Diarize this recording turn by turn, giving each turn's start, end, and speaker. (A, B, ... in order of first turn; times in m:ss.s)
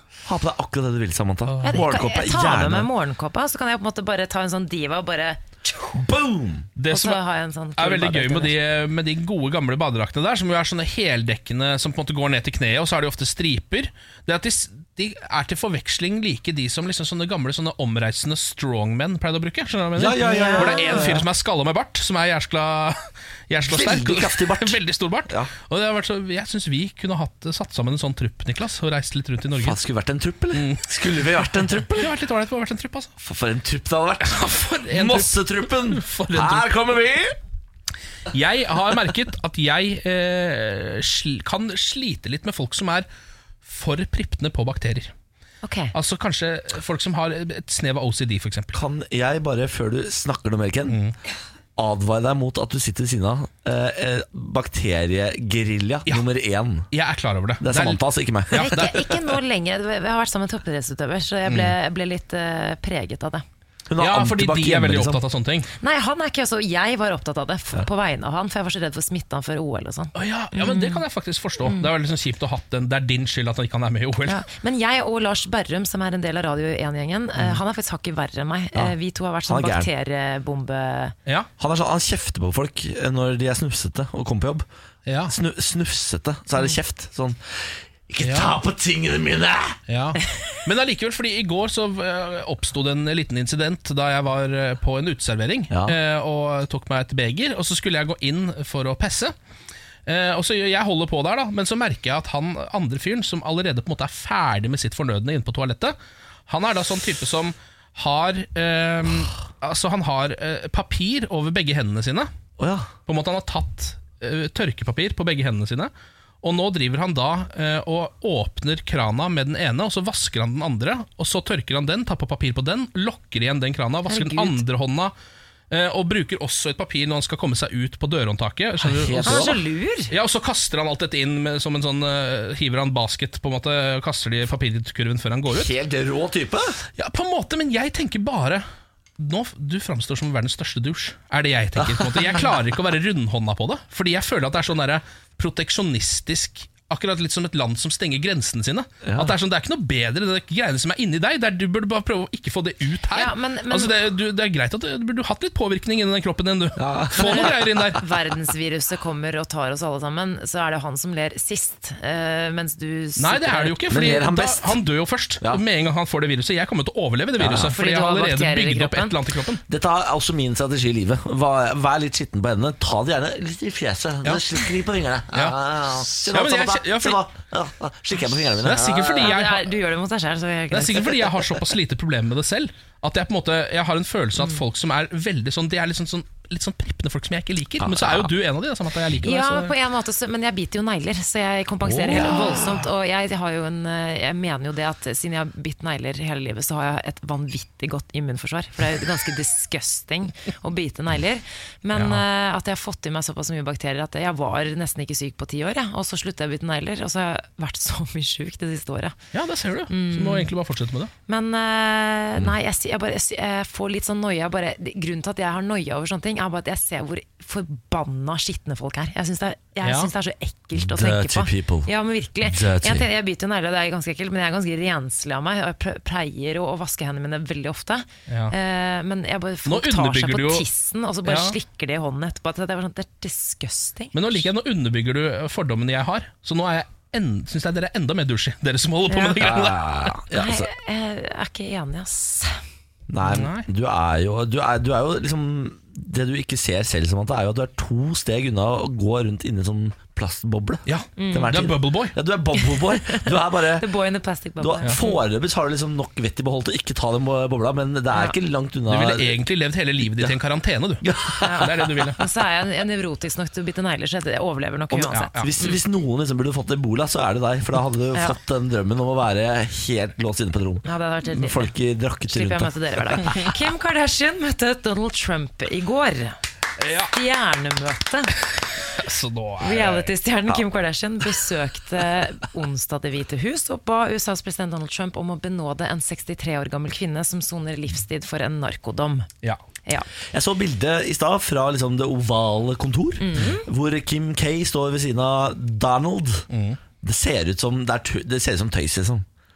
0:00.2-0:02.9 A
0:01.5-0:01.8 B
0:01.6-0:05.9 C
0:05.9-0:06.7 A
0:06.8-0:07.2 B
0:06.9-0:08.5 C
0:07.8-0:29.8 B
0:20.0-0:21.3 A
0:23.6-0:25.5 A
0:29.6-0:32.1 A
0:30.5-0:30.9 B
0:31.9-0:33.1 B
0:33.2-0:37.4 A
0:34.2-0:36.7 B
0:38.3-0:43.1 B
0:43.6-0:45.1 B
0:45.6-0:45.9 C
0:45.9-0:48.7 B
0:48.7-0:51.0 A
0:50.9-0:51.1 B
0:51.8-0:56.9 A
0:56.9-0:59.2 B
0:57.6-0:58.9 A
0:58.5-1:03.4 C
1:03.9-1:05.2 A
1:04.0-1:05.7 B
1:05.8-1:11.0 C
1:10.1-1:14.4 B
1:11.6-1:11.9 C
1:14.2-1:21.1 C
1:19.4-1:19.9 A
1:21.6-1:24.6 A
1:25.0-1:25.3 B
1:25.3-1:29.8 A
1:28.2-1:28.6 B
1:29.9-1:39.3 B
1:35.7-1:36.0 A
1:40.0-1:46.0 B
1:46.5-1:52.3 B
1:52.6-1:52.9 A
1:53.0-1:55.9 B
1:56.4-2:05.1 B
2:04.1-2:04.6 C
2:05.7-2:09.6 B
2:08.8-2:09.6 A
2:09.2-2:10.1 C
2:10.1-2:15.7 B
2:15.5-2:16.8 A
2:17.0-2:18.6 B
2:19.2-2:38.0 B
2:21.8-2:22.2 A
2:29.0-2:29.3 A
2:33.1-2:33.9 C
2:36.8-2:37.8 A
2:37.2-2:43.8 C
2:43.2-2:49.6 B
2:43.9-2:44.8 A
2:47.4-2:47.7 A
2:47.5-2:49.1 C
2:49.7-2:59.3 A
2:55.3-2:57.2 B
2:58.6-2:59.7 B
2:59.2-3:01.3 C
3:00.7-3:09.8 B
3:09.2-3:29.2 C
3:11.8-3:12.4 A
3:12.1-3:12.7 B
3:21.9-3:22.2 B
3:29.3-3:31.1 B
3:29.9-3:30.5 C
3:31.3-3:54.2 C
3:39.8-3:40.1 B
3:40.7-3:41.9 A
3:42.4-3:43.1 A
3:48.3-3:48.5 B
3:49.6-3:50.6 B
3:51.2-3:51.6 B
3:54.1-4:00.2 B
3:59.1-3:59.4 C
3:59.4-4:00.7 A
4:00.3-4:02.6 C
4:03.1-4:13.9 A
4:03.2-4:03.6 B
4:10.8-4:12.2 B
4:11.2-4:11.6 C
4:12.6-4:15.2 C
4:14.6-4:19.4 A
4:18.9-4:22.2 B
4:21.0-4:22.1 A
4:21.4-4:25.8 C
4:25.1-4:25.5 B
4:25.4-4:32.7 A
4:30.8-4:31.7 C
4:32.3-4:36.4 C
4:36.8-4:37.1 B
4:37.1-4:38.3 C
4:38.9-4:40.1 B
4:39.6-4:49.3 C
4:50.3-4:56.5 A
4:53.2-4:53.6 C
4:56.5-4:56.8 B
4:57.0-4:59.2 A